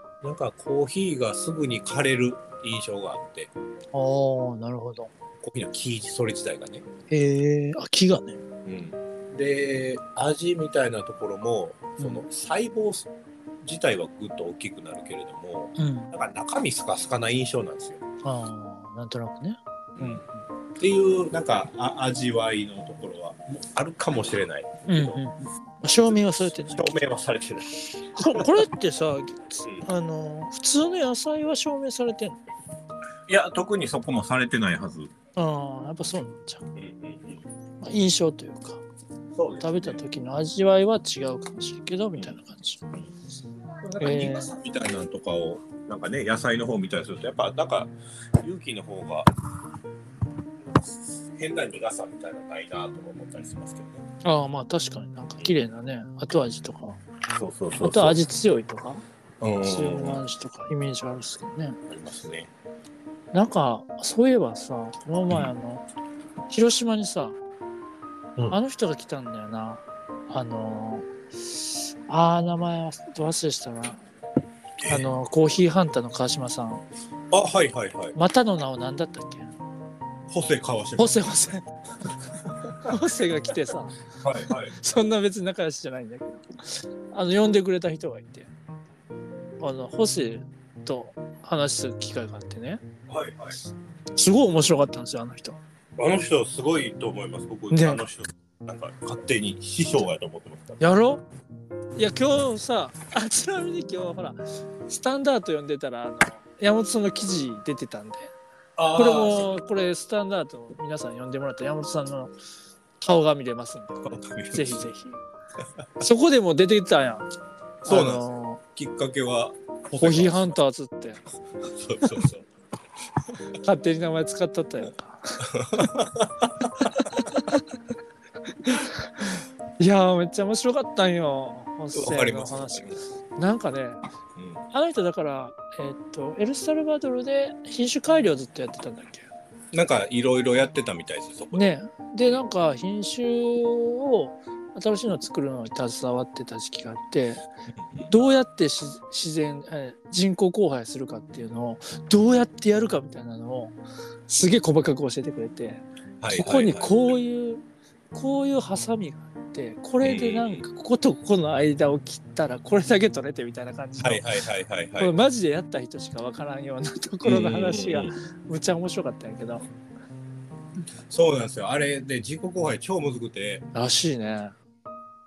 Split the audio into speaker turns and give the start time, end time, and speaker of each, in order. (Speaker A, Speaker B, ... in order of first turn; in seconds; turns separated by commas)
Speaker A: 0.2-3.5, Speaker B: 3.9-5.1, Speaker A: 5.4-6.8, Speaker B: 7.1-8.4, Speaker A: 8.6-13.1, Speaker A: 13.6-18.0, Speaker B: 15.8-16.1, Speaker B: 18.2-20.3, Speaker A: 19.9-20.2, Speaker A: 20.8-25.2, Speaker B: 24.9-27.0, Speaker A: 26.0-28.6, Speaker B: 28.1-32.4, Speaker A: 33.3-35.1, Speaker B: 35.4-36.6, Speaker A: 36.7-37.4, Speaker B: 37.8-38.8, Speaker A: 39.3-40.0, Speaker B: 39.6-42.8, Speaker A: 43.8-49.3, Speaker B: 44.0-44.5, Speaker A: 50.6-54.0, Speaker B: 54.2-57.0, Speaker A: 57.3-58.2, Speaker B: 57.8-59.0, Speaker A: 59.4-60.2, Speaker B: 59.6-61.8, Speaker A: 61.9-62.5, Speaker B: 63.3-65.8, Speaker B: 66.5-67.4, Speaker B: 68.5-74.0, Speaker A: 74.8-75.1, Speaker B: 74.9-76.8, Speaker A: 77.3-78.2, Speaker B: 78.1-79.5, Speaker A: 80.3-81.5, Speaker B: 81.0-81.7, Speaker A: 82.4-82.9, Speaker B: 82.8-84.0, Speaker A: 84.2-84.7, Speaker B: 84.7-88.5, Speaker B: 89.6-92.8, Speaker A: 93.1-93.6, Speaker B: 94.2-95.6, Speaker A: 96.0-100.8, Speaker B: 97.7-98.0, Speaker B: 100.8-101.2, Speaker B: 101.9-108.3, Speaker A: 108.8-109.6, Speaker B: 108.9-112.3, Speaker B: 113.0-115.2, Speaker A: 114.0-114.9, Speaker A: 115.6-115.8, Speaker B: 116.0-117.3, Speaker A: 117.8-120.5, Speaker B: 117.8-118.6, Speaker B: 120.0-121.2, Speaker A: 121.6-122.5, Speaker A: 123.2-123.6, Speaker B: 123.6-125.5, Speaker A: 125.5-127.4, Speaker B: 127.0-127.6, Speaker B: 128.6-134.1, Speaker A: 131.9-133.1, Speaker A: 134.3-134.6, Speaker B: 134.7-139.3, Speaker A: 139.7-141.7, Speaker B: 141.5-147.4, Speaker A: 147.7-148.1, Speaker B: 148.1-164.3, Speaker A: 156.2-157.0, Speaker A: 160.0-160.7, Speaker A: 164.0-165.1, Speaker B: 165.0-169.7, Speaker A: 167.2-168.2, Speaker A: 171.1-173.6, Speaker B: 173.7-174.5